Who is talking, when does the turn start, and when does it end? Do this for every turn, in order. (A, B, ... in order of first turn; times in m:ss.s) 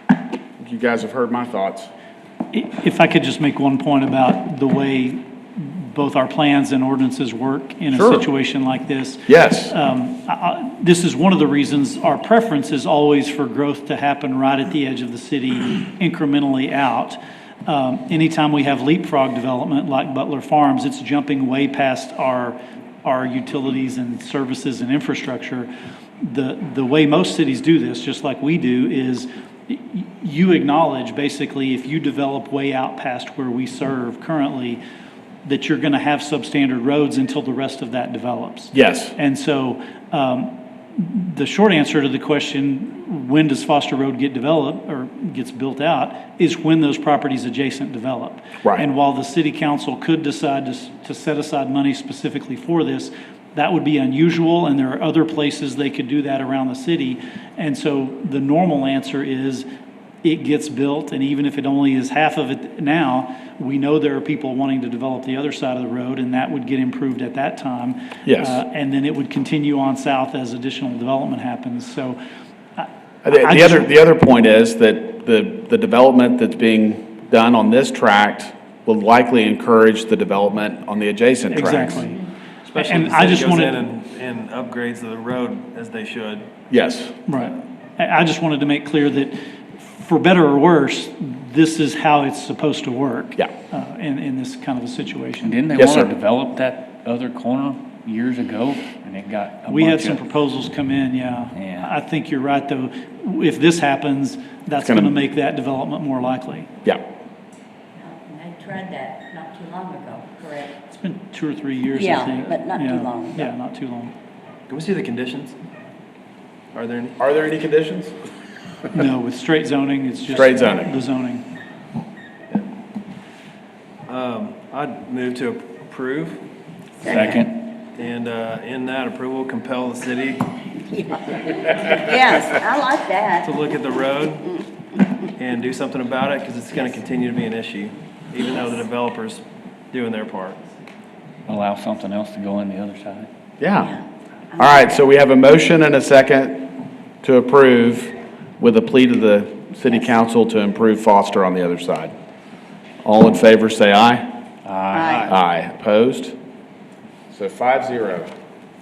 0:00.6-0:01.9 A
0:02.5-0:25.7 B
0:07.9-0:08.3 A
0:09.3-0:09.7 A
0:26.2-0:34.8 B
0:35.4-0:59.7 B
0:38.7-0:39.2 A
1:00.2-1:12.2 B
1:08.3-1:08.6 A
1:12.8-1:13.9 B
1:13.2-1:22.1 A
1:21.5-1:22.2 B
1:22.7-1:26.5 C
1:22.8-1:23.8 B
1:26.7-1:27.2 A
1:27.3-1:35.6 B
1:35.4-1:40.2 D
1:35.8-1:36.1 A
1:39.7-1:46.7 B
1:41.5-1:42.0 D
1:44.8-1:45.2 A
1:48.0-1:50.7 E
1:50.9-1:54.1 B
1:51.9-1:53.5 E
1:54.7-1:55.6 C
1:56.7-1:57.2 C
1:57.2-1:58.2 A
1:58.9-2:01.5 B
2:00.3-2:00.9 A
2:04.1-2:06.4 C
2:07.0-2:07.4 E
2:07.0-2:07.6 D
2:07.9-2:10.5 C
2:10.9-2:13.5 E
2:13.4-2:14.6 C
2:15.4-2:20.6 C
2:21.5-2:23.3 D
2:23.6-2:24.0 A
2:24.6-2:32.1 A
2:24.6-2:24.9 E
2:33.0-2:34.3 A
2:34.6-2:35.4 D
2:34.9-2:35.3 E
2:35.3-2:36.4 A
2:37.3-2:38.3 A